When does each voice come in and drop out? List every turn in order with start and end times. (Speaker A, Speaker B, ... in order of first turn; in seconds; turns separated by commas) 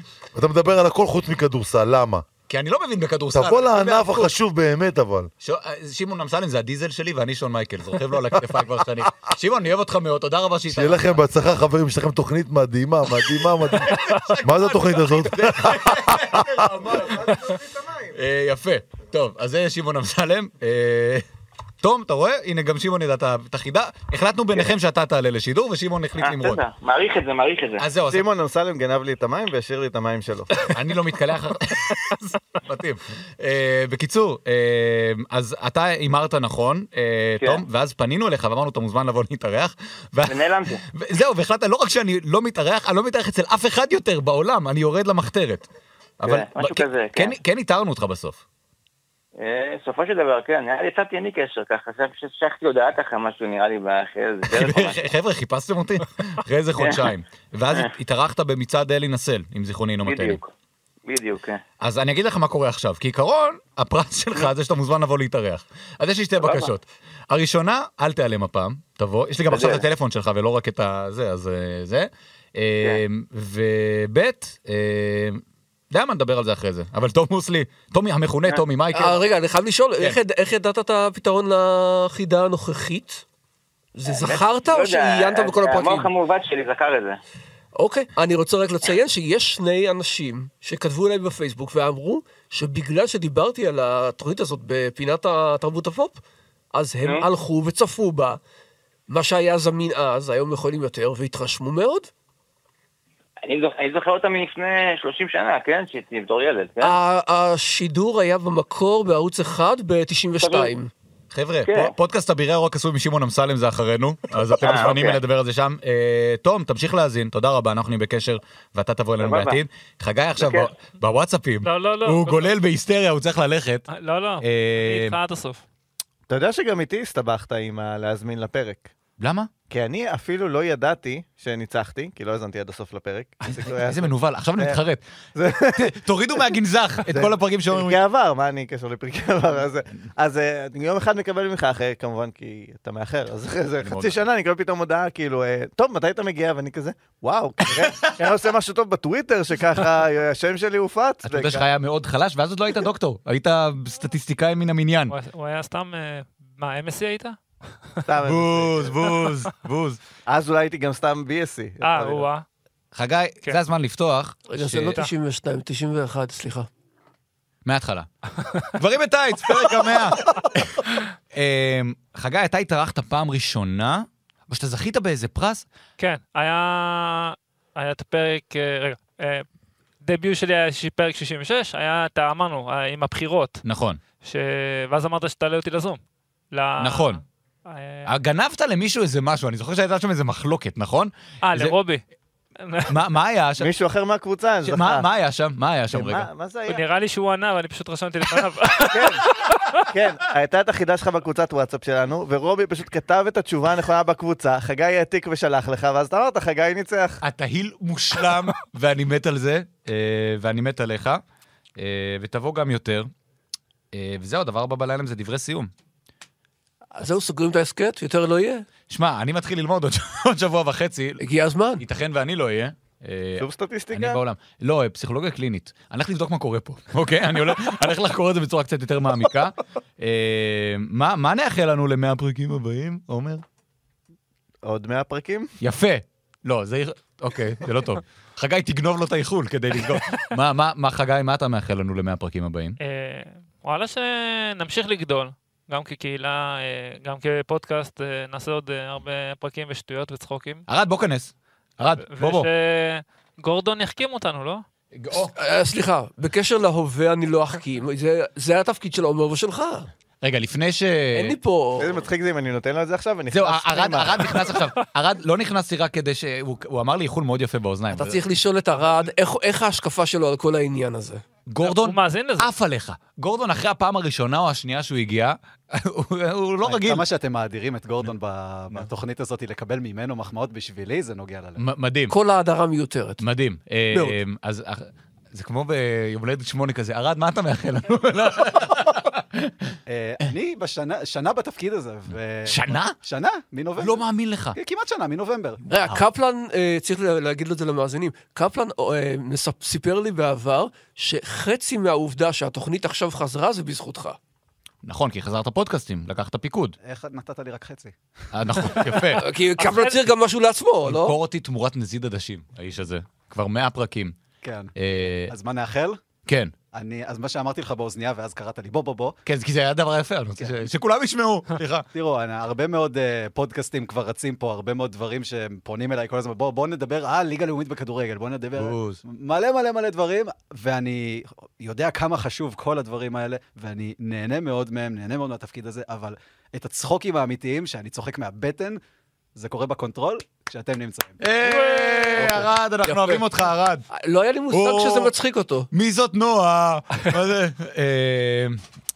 Speaker A: 0.4-2.2, Speaker B: 2.5-4.3, Speaker A: 3.4-5.3, Speaker B: 5.4-11.2, Speaker A: 10.7-16.6, Speaker B: 13.7-17.4, Speaker C: 16.9-18.1, Speaker B: 18.1-21.2, Speaker B: 21.8-26.6, Speaker D: 26.2-27.9, Speaker B: 27.8-28.2, Speaker C: 28.1-30.7, Speaker B: 30.7-45.7, Speaker D: 40.3-40.8, Speaker B: 46.2-48.4, Speaker D: 46.2-47.4, Speaker D: 49.4-55.0, Speaker B: 54.5-60.4, Speaker D: 56.8-57.1, Speaker D: 60.0-60.5, Speaker D: 61.1-61.6, Speaker B: 61.8-79.2, Speaker D: 66.4-66.7, Speaker D: 69.5-69.8, Speaker E: 78.9-83.2, Speaker E: 84.0-86.1, Speaker D: 84.1-87.2, Speaker E: 87.8-96.2, Speaker E: 96.7-98.4, Speaker E: 99.1-102.1, Speaker D: 103.4-107.0, Speaker E: 106.8-110.9, Speaker D: 110.4-110.7, Speaker B: 111.3-123.8, Speaker D: 111.7-111.9, Speaker D: 114.6-115.2, Speaker D: 119.2-119.6, Speaker D: 120.4-120.7, Speaker F: 121.6-122.5, Speaker F: 123.9-125.6, Speaker B: 124.4-125.2, Speaker C: 126.3-128.9, Speaker B: 129.2-129.5, Speaker C: 129.7-134.8, Speaker B: 133.5-135.0, Speaker C: 135.4-136.5, Speaker B: 135.8-138.0, Speaker C: 137.1-151.7, Speaker B: 143.8-144.2, Speaker B: 147.8-148.1, Speaker B: 151.2-155.1, Speaker F: 155.1-157.8, Speaker C: 158.1-159.0, Speaker B: 158.2-160.0, Speaker C: 160.3-162.3, Speaker F: 161.8-162.4, Speaker B: 162.9-164.8, Speaker E: 164.5-166.7, Speaker F: 164.8-165.1, Speaker B: 167.7-168.1, Speaker B: 168.8-175.7, Speaker F: 176.0-179.5, Speaker F: 180.0-183.6, Speaker B: 183.6-184.0, Speaker F: 184.2-186.0, Speaker F: 186.5-188.1, Speaker B: 186.8-187.2, Speaker B: 188.1-191.8, Speaker F: 191.4-192.0, Speaker F: 192.6-192.9, Speaker B: 192.9-193.7, Speaker C: 193.6-195.1, Speaker B: 194.7-196.3, Speaker C: 195.9-196.8, Speaker F: 196.7-199.8, Speaker C: 198.9-199.2, Speaker C: 199.9-207.2, Speaker B: 207.2-211.2, Speaker B: 211.8-213.1, Speaker B: 213.9-215.7, Speaker E: 216.9-218.7, Speaker B: 218.9-221.2, Speaker E: 221.2-221.8, Speaker B: 221.8-233.4, Speaker C: 223.4-224.2, Speaker C: 234.6-235.5, Speaker B: 235.6-242.8, Speaker F: 242.8-250.6, Speaker B: 250.7-252.5, Speaker F: 252.0-254.6, Speaker B: 254.9-255.3, Speaker E: 255.3-259.9, Speaker B: 260.2-261.4, Speaker E: 261.1-262.1, Speaker C: 261.8-264.5, Speaker B: 263.3-268.2, Speaker E: 267.9-271.2, Speaker B: 271.5-277.1, Speaker F: 271.6-272.5, Speaker G: 276.6-281.6, Speaker B: 281.6-282.1, Speaker E: 282.1-283.2, Speaker B: 283.2-289.4, Speaker E: 283.9-284.2, Speaker G: 289.9-294.0, Speaker B: 292.5-293.0, Speaker B: 293.8-294.6, Speaker G: 294.6-295.6, Speaker E: 295.7-304.2, Speaker B: 304.8-306.8, Speaker G: 306.8-307.9, Speaker B: 308.3-309.3, Speaker E: 309.1-311.2, Speaker F: 309.6-310.0, Speaker B: 310.9-314.1, Speaker G: 314.4-314.7, Speaker B: 314.8-315.3, Speaker G: 315.3-316.0, Speaker B: 316.3-316.5, Speaker G: 316.7-319.2, Speaker B: 319.3-321.9, Speaker G: 320.4-320.7, Speaker G: 321.9-338.8, Speaker B: 328.6-329.0, Speaker G: 339.4-341.2, Speaker B: 341.2-343.8, Speaker E: 341.4-343.2, Speaker E: 343.9-345.7, Speaker B: 344.5-345.1, Speaker B: 345.7-348.6